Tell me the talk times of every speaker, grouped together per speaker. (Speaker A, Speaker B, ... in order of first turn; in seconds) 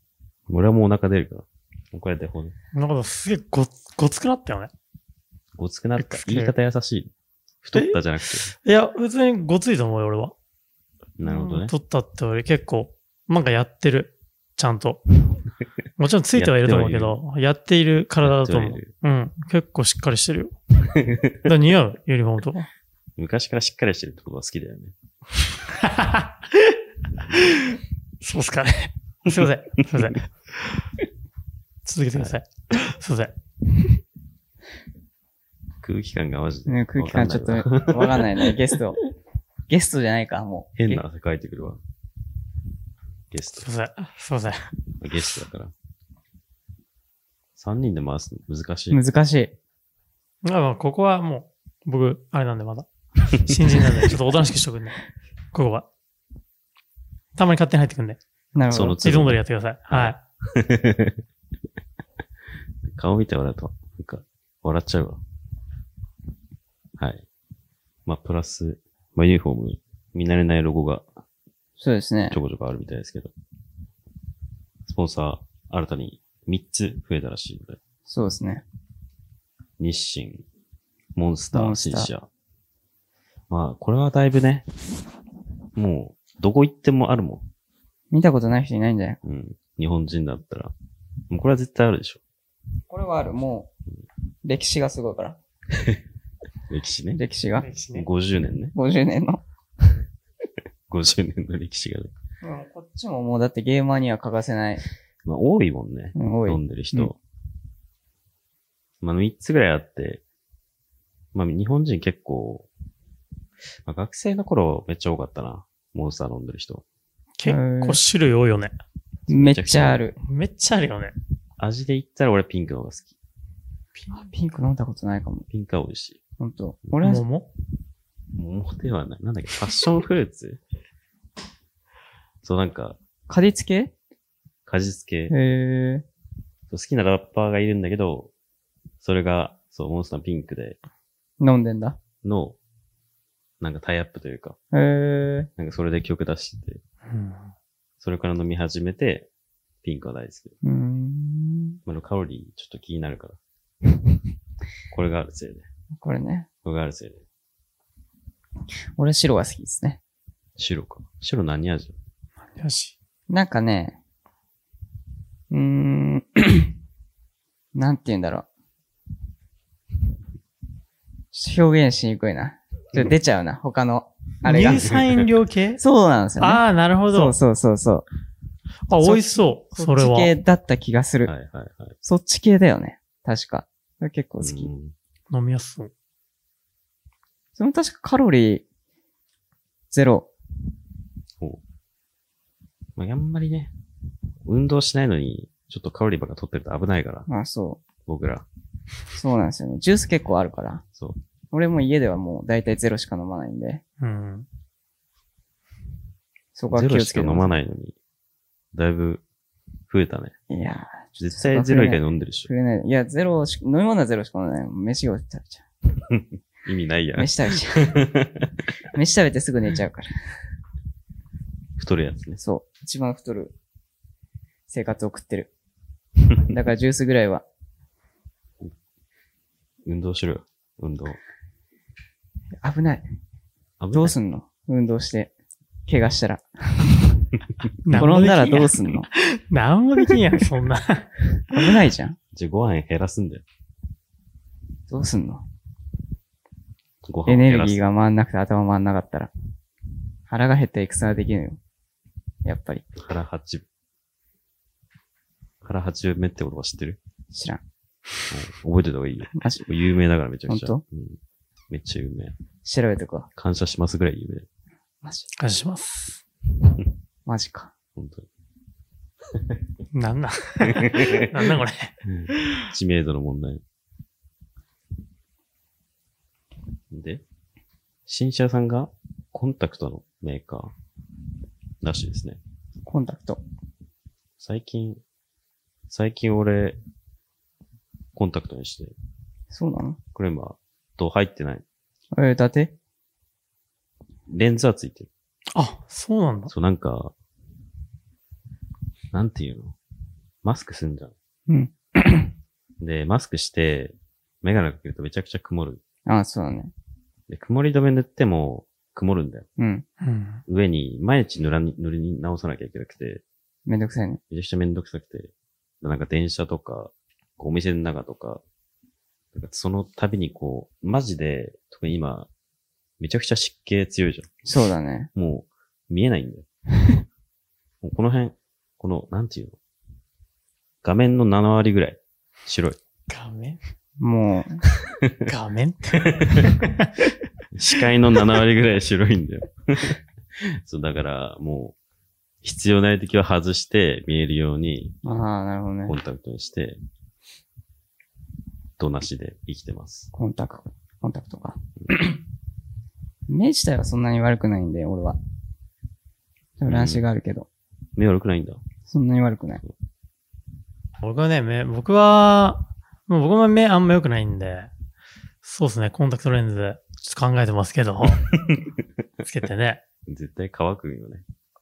Speaker A: 0.5-2.5, 5.6-7.1, 7.6-8.5, 11.2-11.7, 16.3-17.2, 18.2-18.9, 20.9-21.3, 23.2-24.9, 35.8-38.5, 40.8-41.8, 43.3-43.7, 45.0-45.7, 47.6-49.0, 53.4-54.1, 58.7-61.2, 62.9-65.2, 67.0-67.2, 68.0-71.0, 72.3-73.3, 74.8-77.8, 79.8-80.4, 81.2-82.3, 83.5-84.6, 85.8-87.5, 89.2-90.7, 91.3-92.2, 95.7-96.0, 96.7-97.2, 97.9-98.7, 100.9-102.1, 105.2-107.2, 109.0-110.2, 111.3-112.7, 113.8-116.8, 119.3-120.0, 121.6-123.1, 125.5-126.2, 128.3-130.6, 132.4-133.0, 134.7-135.3, 136.7-138.3, 139.0-140.8, 142.2-142.6, 143.6-144.6, 145.6-146.8, 148.0-149.3, 149.8-150.5, 151.8-153.4, 154.9-155.7, 156.6-157.2, 160.6-161.9, 174.7-175.3, 181.2-181.9, 184.4-184.9, 192.9-193.7, 194.4-197.3, 198.0-198.4, 206.7-207.9, 208.7-209.2, 209.9-210.3, 211.2-212.5, 216.1-218.5, 221.8-222.4, 229.8-231.2, 233.8-234.1, 242.3-243.4, 247.0-247.8, 252.9-253.7, 255.6-257.0, 258.3-261.2, 261.7-262.3, 263.4-264.4, 267.9-268.3, 270.7-271.5, 272.0-273.6, 276.9-277.2, 278.1-280.7, 281.8-282.4, 284.4-285.0, 285.9-286.8, 288.1-288.9, 290.1-291.6, 294.3-295.1, 296.5-297.1, 299.1-299.8, 300.4-301.1, 302.8-305.8, 307.3-309.5, 310.5-313.2, 314.3-318.4, 319.3-322.3, 323.0-324.3, 325.1-326.4, 327.8-329.6, 330.8-332.8, 334.8-335.2, 336.0-336.5, 337.5-341.7, 342.4-345.0, 345.9-346.8, 348.8-350.1, 356.7-357.0, 357.9-358.6, 368.3-368.8, 370.1-371.2
Speaker B: 2.7-4.7, 6.0-6.5, 7.7-8.0, 8.6-10.3, 11.2-15.1, 16.0-20.5, 21.4-22.7, 25.7-26.8, 27.3-30.8, 31.8-33.3, 43.6-44.7, 50.4-55.0, 55.5-55.9, 57.4-58.2, 59.0-60.2, 97.6-98.1, 117.4-118.7, 120.2-121.1, 127.0-127.5, 147.1-147.5, 162.6-162.9, 174.5-175.8, 176.4-177.3, 178.9-180.3, 185.3-185.9, 204.0-204.4, 237.8-241.1, 265.4-266.2, 269.9-272.7, 295.5-296.5, 310.0-310.4, 333.1-333.6, 335.2-337.1, 361.0-364.7, 365.4-368.3, 369.2-369.8
Speaker C: 36.7-39.0, 39.7-40.7, 48.9-49.5, 58.5-59.0, 71.8-72.4, 78.0-78.6, 81.5-82.1, 88.1-89.2, 92.9-93.7, 94.4-95.4, 97.1-97.7, 98.7-99.4, 102.4-104.8, 106.1-106.6, 117.4-118.0, 119.3-120.2, 124.1-125.5, 126.4-127.2, 133.3-133.9, 135.3-136.1, 141.4-142.0, 144.7-145.5, 150.6-151.8, 156.0-156.5, 159.0-160.0, 163.3-164.0, 165.5-166.7, 167.7-168.5, 171.3-174.9, 175.8-178.0, 178.9-181.3, 182.0-184.7, 187.6-188.6, 189.9-190.3, 197.3-197.8, 199.1-200.8, 201.5-203.8, 206.5-207.5, 210.5-215.6, 217.2-217.9, 218.9-220.1, 222.4-223.5, 224.7-225.5, 226.5-227.4, 232.6-233.0, 233.9-235.3, 235.9-237.2, 237.9-239.1, 241.5-242.2, 244.9-245.4, 247.3-249.3, 250.3-251.6, 252.4-252.8, 257.3-257.6, 259.4-259.6, 260.5-260.8, 262.6-263.3, 265.0-265.3, 267.2-267.7, 282.9-283.4, 289.5-290.0, 292.1-292.7, 301.5-302.3, 306.1-306.7, 309.6-309.8, 313.6-314.2, 324.4-325.1, 334.0-334.6, 345.0-345.9, 350.1-352.2, 353.3-355.2, 356.6-357.5, 358.9-359.6